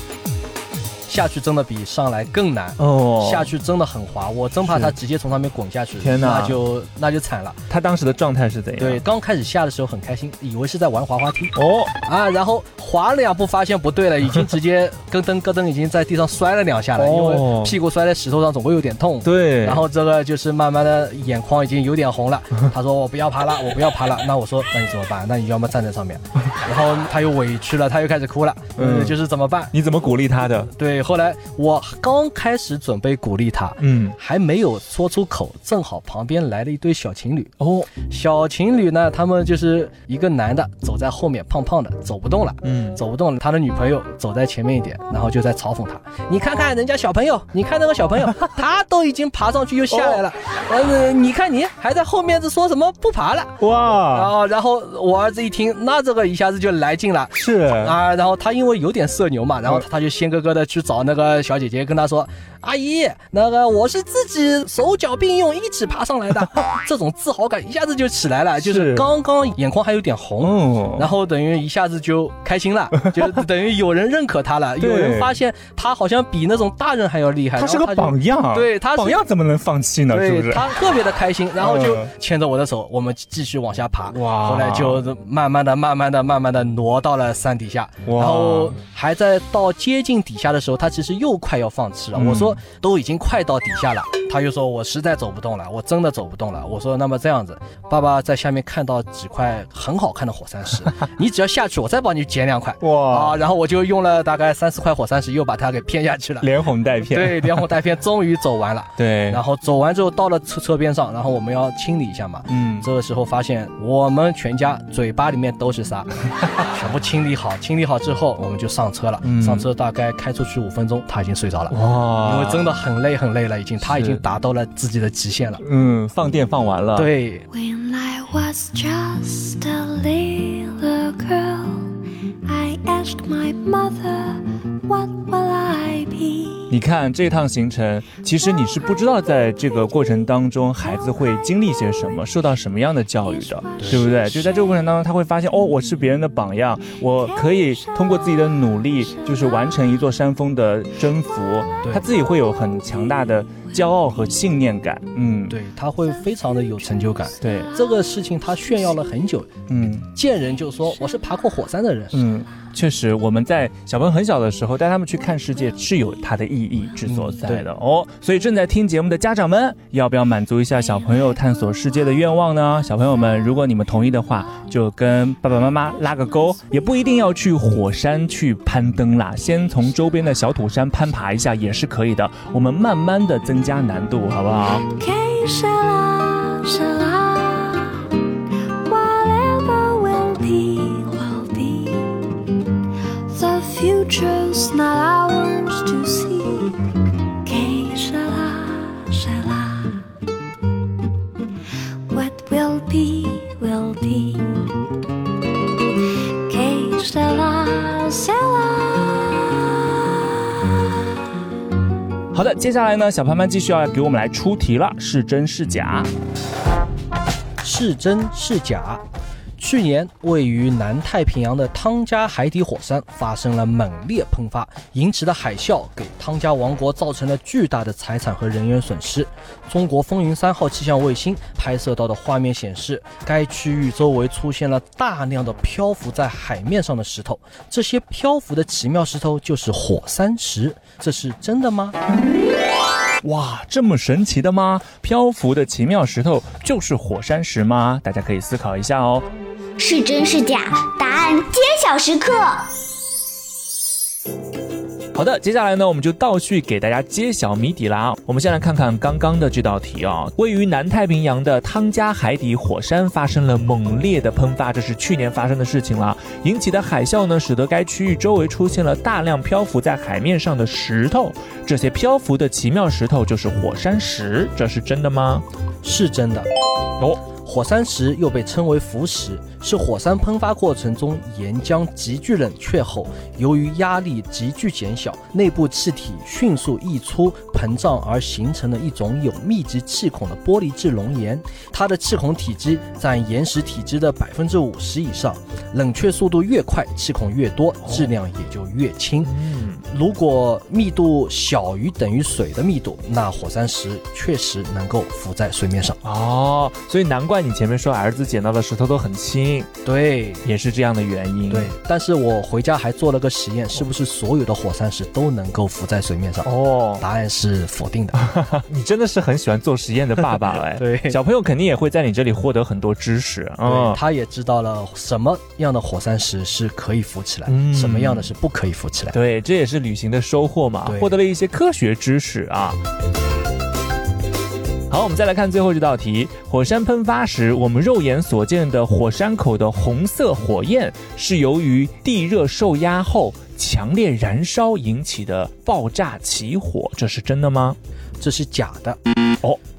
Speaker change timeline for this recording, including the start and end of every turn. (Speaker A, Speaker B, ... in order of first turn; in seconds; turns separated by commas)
Speaker A: 1.1-7.6, Speaker B: 2.8-3.5, Speaker B: 4.7-4.9, Speaker B: 6.0-6.6, Speaker B: 7.7-9.0, Speaker A: 8.8-29.7, Speaker B: 11.6-11.9, Speaker B: 17.0-17.8, Speaker B: 19.2-19.9, Speaker B: 28.8-29.2, Speaker B: 29.7-30.7, Speaker A: 30.8-37.5, Speaker B: 33.8-34.2, Speaker B: 37.6-37.9, Speaker A: 38.1-79.2, Speaker B: 42.6-43.0, Speaker B: 49.9-50.2, Speaker B: 53.6-54.3, Speaker B: 57.4-57.9, Speaker B: 68.6-69.1, Speaker B: 70.4-71.1, Speaker B: 74.8-75.3, Speaker B: 77.6-80.7, Speaker A: 80.1-106.5, Speaker B: 81.6-82.1, Speaker B: 84.1-85.1, Speaker B: 88.0-88.8, Speaker B: 92.1-92.6, Speaker B: 102.8-103.4, Speaker B: 106.4-107.7, Speaker A: 107.1-116.1, Speaker B: 109.0-109.4, Speaker B: 112.5-112.9, Speaker A: 116.7-125.6, Speaker B: 119.2-119.7, Speaker B: 121.7-122.7, Speaker B: 123.8-124.2, Speaker B: 125.6-127.1, Speaker A: 127.0-127.5, Speaker C: 127.5-131.9, Speaker C: 132.4-136.8, Speaker B: 136.7-155.6, Speaker C: 138.5-138.8, Speaker C: 139.5-142.0, Speaker C: 143.0-146.0, Speaker A: 143.8-144.1, Speaker C: 147.2-150.1, Speaker C: 152.7-154.3, Speaker A: 155.5-159.5, Speaker B: 157.4-157.7, Speaker C: 157.4-158.9, Speaker B: 159.7-160.1, Speaker A: 160.1-162.2, Speaker B: 162.1-184.8, Speaker A: 167.1-167.7, Speaker C: 184.8-188.1, Speaker C: 188.8-192.2, Speaker C: 193.3-196.8, Speaker C: 197.4-200.0, Speaker C: 202.1-204.7, Speaker C: 206.5-210.4, Speaker B: 212.3-216.1, Speaker A: 217.6-219.0, Speaker A: 219.6-242.0, Speaker B: 243.2-249.3, Speaker D: 249.8-252.7, Speaker B: 255.1-275.4, Speaker A: 275.8-276.5, Speaker A: 277.4-299.3, Speaker B: 297.9-298.1, Speaker B: 299.2-299.8, Speaker A: 299.9-306.0, Speaker B: 306.0-309.7, Speaker A: 309.9-310.4, Speaker B: 310.4-311.7, Speaker A: 311.5-318.2, Speaker B: 316.4-317.0, Speaker B: 318.2-324.0, Speaker A: 320.8-321.2, Speaker A: 323.6-329.2, Speaker B: 327.5-328.3, Speaker B: 329.1-332.8, Speaker A: 330.9-331.1, Speaker B: 334.9-347.8, Speaker A: 348.2-349.0